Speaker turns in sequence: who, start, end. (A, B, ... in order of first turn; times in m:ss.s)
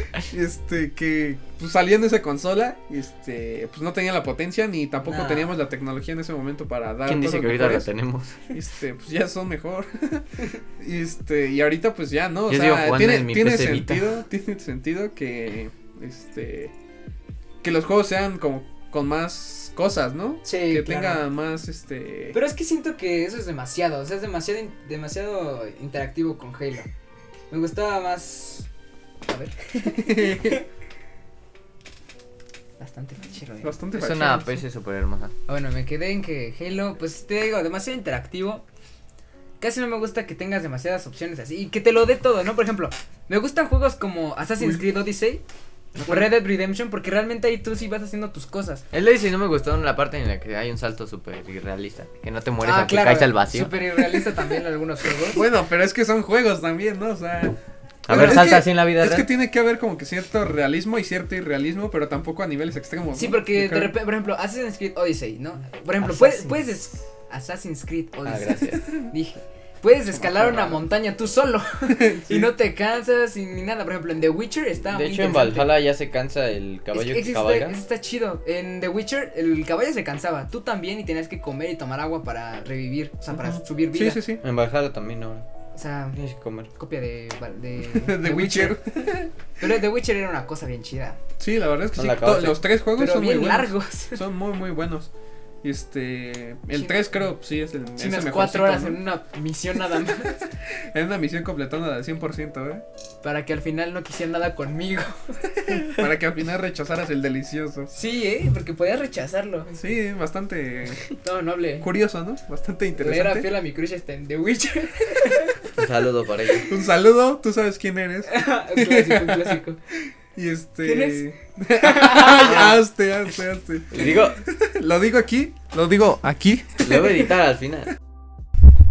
0:00.3-0:07.9 A
0:05.0-0:05.5 B
0:07.1-0:08.5 C
0:08.5-0:10.3 A
0:10.8-0:16.7 A
0:12.5-0:14.1 C
0:17.6-0:22.4 A
0:20.4-0:21.2 B
0:22.3-0:26.9 B
0:27.5-0:28.7 B
0:29.2-0:30.6 B
0:29.8-0:30.6 A
0:32.8-0:33.8 B
0:33.6-0:34.6 A
0:33.9-0:35.3 C
0:35.5-0:38.6 B
0:39.6-0:45.4 B
0:46.0-0:46.3 C
0:46.0-0:48.8 B
0:48.9-0:53.8 C
0:52.6-0:55.4 B
0:55.3-0:57.6 A
0:58.1-0:59.3 C
0:58.1-1:04.0 A
1:03.1-1:15.8 B
1:06.0-1:06.7 C
1:08.2-1:09.0 C
1:10.1-1:10.8 C
1:11.9-1:12.5 A
1:14.8-1:17.8 C
1:16.9-1:24.2 B
1:23.3-1:24.4 A
1:24.4-1:25.4 C
1:25.7-1:26.2 B
1:26.1-1:26.7 C
1:26.8-1:28.8 B
1:27.8-1:29.3 A
1:29.6-1:31.2 B
1:31.4-1:35.1 A
1:32.0-1:32.6 C
1:33.0-1:34.2 B
1:35.6-1:39.0 A
1:36.7-1:37.2 B
1:38.0-1:40.4 B
1:40.4-1:42.8 A
1:43.2-1:45.9 B
1:45.8-1:47.9 A
1:47.9-1:49.9 B
1:49.8-1:51.0 A
1:51.2-1:51.9 B
1:51.8-1:53.5 A
1:53.0-1:55.6 B
1:55.8-1:56.7 C
1:56.6-2:07.3 A
1:58.3-1:59.8 B
2:00.8-2:02.8 B
2:02.4-2:02.7 C
2:03.9-2:04.4 C
2:06.8-2:07.9 C